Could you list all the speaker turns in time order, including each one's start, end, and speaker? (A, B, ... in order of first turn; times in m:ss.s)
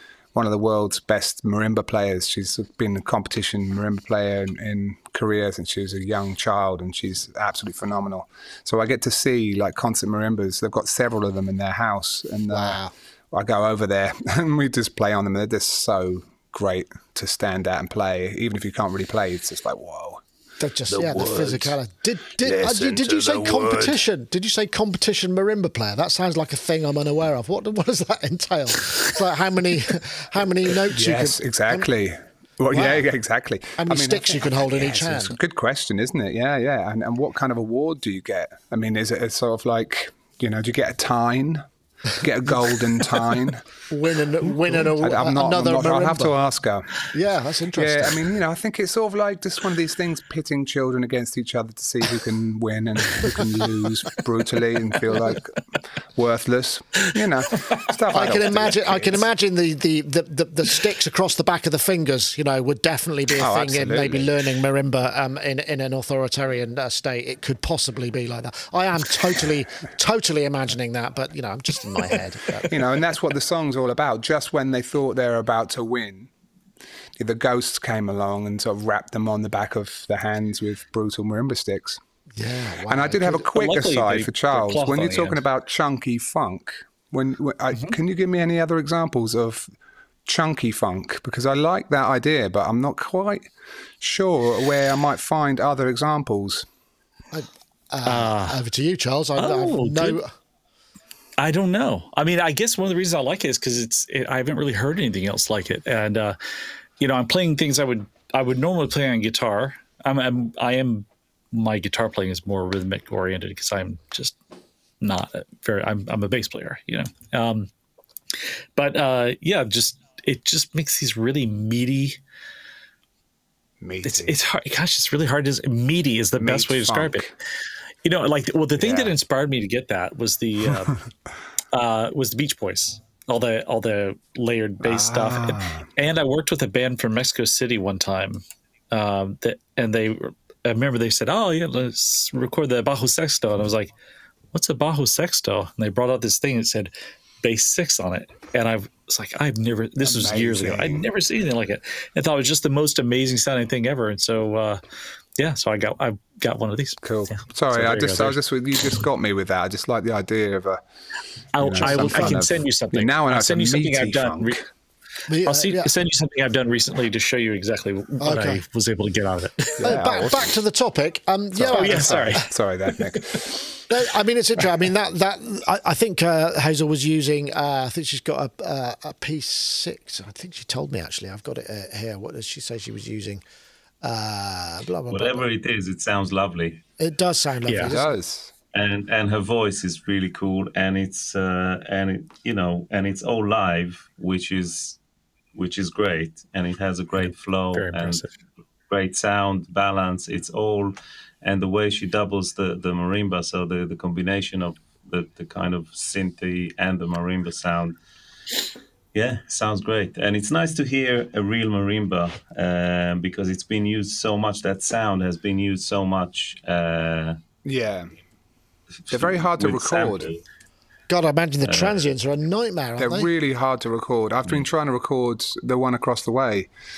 0:00.3-0:12.8 A
0:12.5-0:12.9 B
0:13.3-0:20.2 A
0:20.6-0:31.9 B
0:21.0-0:21.7 A
0:22.4-0:23.7 A
0:30.8-0:41.7 A
0:32.7-0:33.1 B
0:33.8-0:35.4 B
0:42.2-0:43.7 A
0:43.9-0:46.4 B
0:44.4-0:46.9 A
0:47.1-0:48.2 B
0:47.8-0:55.6 A
0:56.2-0:59.3 A
0:58.1-1:12.9 B
1:03.4-1:04.3 A
1:12.7-1:16.3 A
1:17.2-1:22.0 A
1:22.4-1:23.5 B
1:22.9-1:29.7 A
1:23.5-1:25.4 C
1:30.3-1:36.7 A
1:37.3-1:40.3 B
1:38.0-1:38.6 C
1:39.4-1:40.2 C
1:41.4-1:46.4 C
1:47.0-1:54.4 C
1:55.0-1:57.7 C
1:58.8-2:02.2 C
2:03.8-2:04.4 A
2:04.0-2:07.3 C
2:06.4-2:07.3 A
2:08.0-2:11.0 C
2:08.8-2:09.2 A
2:11.7-2:23.9 C
2:14.8-2:15.9 A
2:24.5-2:34.8 C
2:30.0-2:31.1 A
2:35.4-2:38.4 C
2:37.0-2:40.8 A
2:41.6-2:44.6 C
2:41.6-2:44.6 A
2:41.8-2:42.4 B
2:45.3-2:45.9 B
2:45.4-2:50.0 C
2:48.2-2:48.6 B
2:49.8-2:50.5 A
2:49.8-2:52.5 B
2:51.5-2:53.8 A
2:51.7-2:53.0 C
2:53.9-3:03.4 B
3:04.0-3:05.4 B
3:05.1-3:06.8 D
3:07.0-3:08.1 B
3:07.7-3:07.9 C
3:07.9-3:08.5 A
3:08.7-3:15.0 D
3:15.5-3:18.2 D
3:17.2-3:18.3 C
3:18.9-3:28.0 D
3:29.1-3:37.4 D
3:37.6-3:38.1 A
3:39.1-3:40.3 A
3:39.1-3:40.4 D
3:41.1-3:43.3 B
3:41.6-3:42.0 D
3:43.0-3:46.7 A